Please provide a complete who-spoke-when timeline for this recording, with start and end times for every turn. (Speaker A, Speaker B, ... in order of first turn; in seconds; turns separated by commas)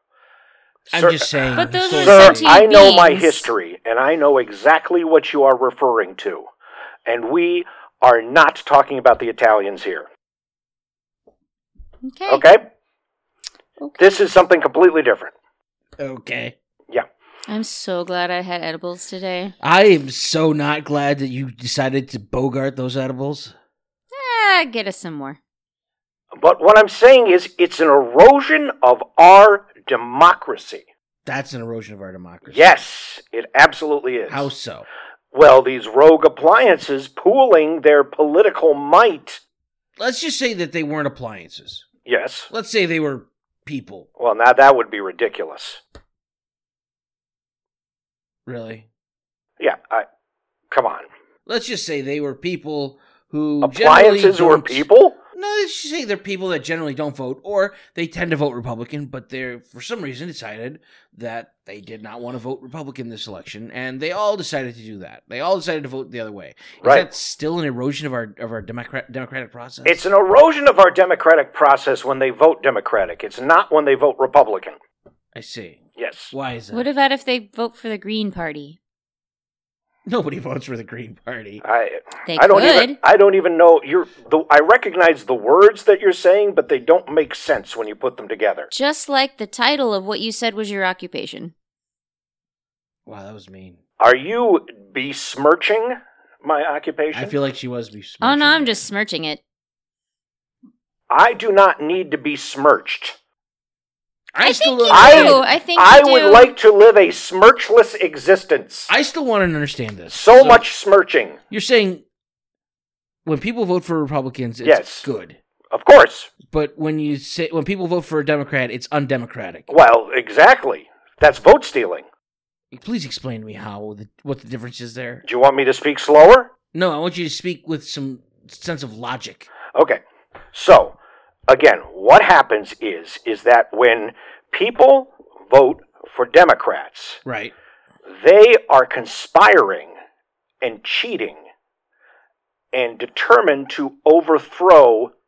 Speaker A: 0.9-2.7, Speaker B: 0.9-6.5, Speaker C: 1.6-3.5, Speaker B: 7.1-10.1, Speaker C: 12.1-12.5, Speaker B: 12.3-12.6, Speaker C: 13.8-14.2, Speaker B: 14.0-15.3, Speaker A: 16.0-16.6, Speaker C: 17.5-19.5, Speaker A: 19.6-23.6, Speaker C: 24.1-25.4, Speaker B: 26.3-30.9, Speaker A: 31.2-32.8, Speaker B: 32.5-34.5, Speaker A: 34.3-34.9, Speaker B: 35.3-39.4, Speaker A: 40.0-41.9, Speaker B: 42.1-42.5, Speaker A: 42.5-44.1, Speaker B: 44.2-45.8, Speaker A: 48.5-48.9, Speaker B: 49.6-50.1, Speaker B: 50.7-51.1, Speaker A: 51.5-70.0, Speaker B: 53.6-55.2, Speaker B: 66.8-67.1, Speaker B: 69.8-74.8, Speaker A: 75.3-76.8, Speaker B: 76.0-76.3, Speaker C: 76.7-78.8, Speaker A: 80.1-81.6, Speaker B: 81.6-88.7, Speaker C: 82.3-83.0, Speaker C: 88.7-91.5, Speaker A: 93.1-93.8, Speaker B: 94.0-97.4, Speaker A: 97.1-98.8, Speaker C: 98.2-99.4, Speaker B: 101.1-103.2, Speaker A: 104.3-105.4, Speaker C: 104.4-106.5, Speaker B: 104.9-108.9, Speaker A: 108.9-110.7, Speaker B: 110.1-111.4, Speaker A: 111.5-112.0, Speaker A: 113.2-115.4, Speaker B: 114.6-115.1, Speaker B: 115.7-116.3, Speaker A: 116.5-119.7, Speaker B: 119.7-122.1, Speaker A: 122.7-125.3, Speaker B: 125.3-126.5, Speaker A: 126.7-129.5, Speaker B: 129.7-130.0, Speaker B: 130.5-131.0, Speaker B: 131.5-137.2, Speaker A: 137.2-137.5, Speaker B: 138.1-139.9, Speaker B: 140.6-141.4, Speaker B: 142.7-145.1